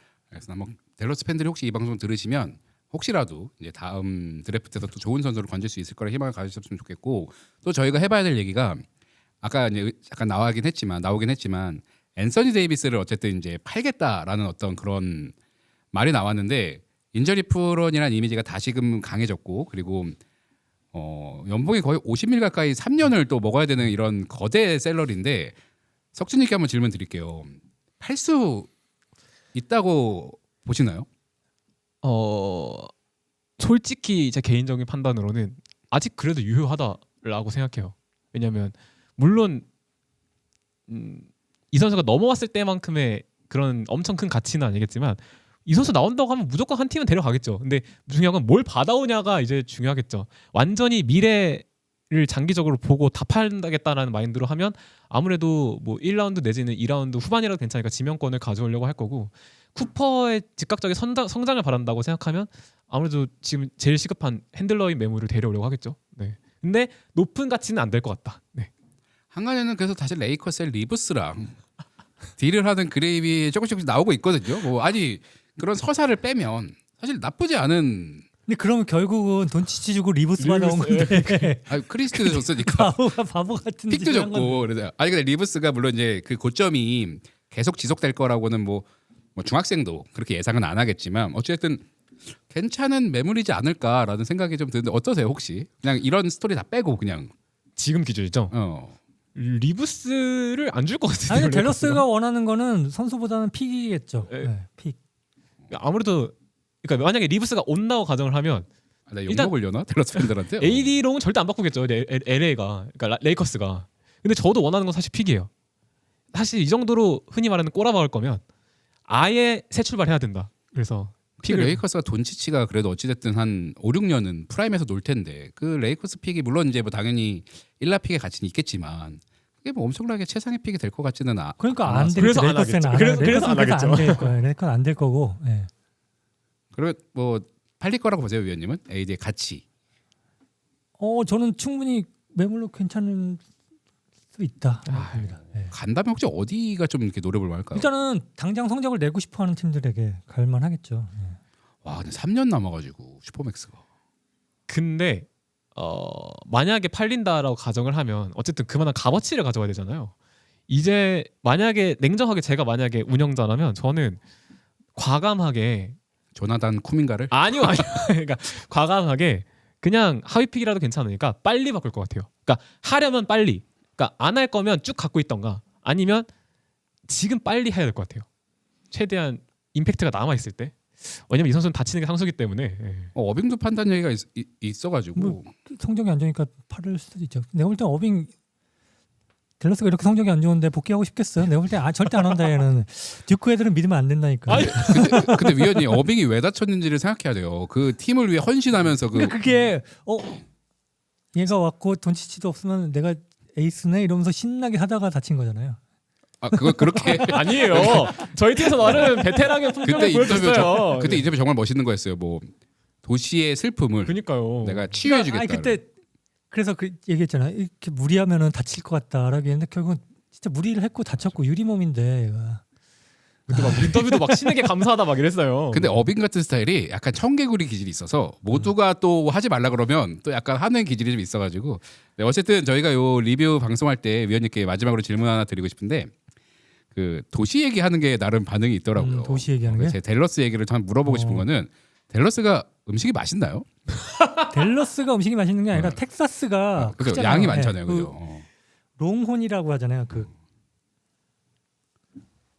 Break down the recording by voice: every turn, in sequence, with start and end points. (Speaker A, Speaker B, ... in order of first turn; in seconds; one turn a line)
Speaker A: 0.3-8.8
Speaker A: 9.4-15.3
Speaker A: 15.9-20.2
Speaker A: 20.9-25.6
Speaker A: 26.1-28.7
Speaker A: 29.5-31.1
Speaker B: 32.0-32.9
Speaker B: 33.6-39.6
Speaker B: 40.9-68.7
Speaker A: 69.3-71.6
Speaker A: 72.4-78.2
Speaker C: 78.5-84.7
Speaker B: 80.4-81.5
Speaker A: 81.7-83.0
Speaker A: 83.9-91.9
Speaker A: 92.4-97.3
Speaker B: 97.8-98.5
Speaker A: 98.5-99.0
Speaker B: 99.3-102.0
Speaker C: 101.3-105.0
Speaker B: 105.7-108.7
Speaker A: 109.1-111.0
Speaker B: 109.3-109.5
Speaker B: 110.1-115.5
Speaker B: 116.3-118.4
Speaker B: 119.1-121.8
Speaker A: 121.4-132.3
Speaker C: 131.6-135.7
Speaker B: 132.2-134.4
Speaker A: 136.7-139.6
Speaker C: 141.0-143.4
Speaker C: 144.3-145.7
Speaker B: 144.9-145.3
Speaker A: 145.7-147.9
Speaker C: 147.7-151.4
Speaker A: 151.8-153.8
Speaker B: 154.7-160.1
Speaker B: 160.7-164.2
Speaker B: 165.0-166.0
Speaker A: 166.3-167.4
Speaker B: 167.3-176.3
Speaker B: 177.1-178.2
Speaker B: 178.9-183.1
Speaker A: 183.2-185.5
Speaker C: 185.2-188.3
Speaker C: 189.6-195.4
Speaker B: 194.5-195.6
Speaker A: 194.5-199.4
Speaker C: 199.1-200.4
Speaker C: 201.3-205.8
Speaker A: 206.4-208.3
Speaker C: 206.5-208.0
Speaker B: 207.3-211.3
Speaker A: 208.8-209.2
Speaker A: 209.8-212.5
Speaker A: 213.1-215.8
Speaker B: 214.1-215.0
Speaker C: 215.0-215.9
Speaker C: 216.5-222.6
Speaker C: 223.5-224.7
Speaker B: 223.5-226.0
Speaker A: 225.7-236.1
Speaker A: 236.9-243.7
Speaker C: 239.0-240.0
Speaker C: 241.1-241.5
Speaker C: 244.5-248.2
Speaker A: 245.7-246.0
Speaker A: 246.8-248.5
Speaker C: 249.0-250.3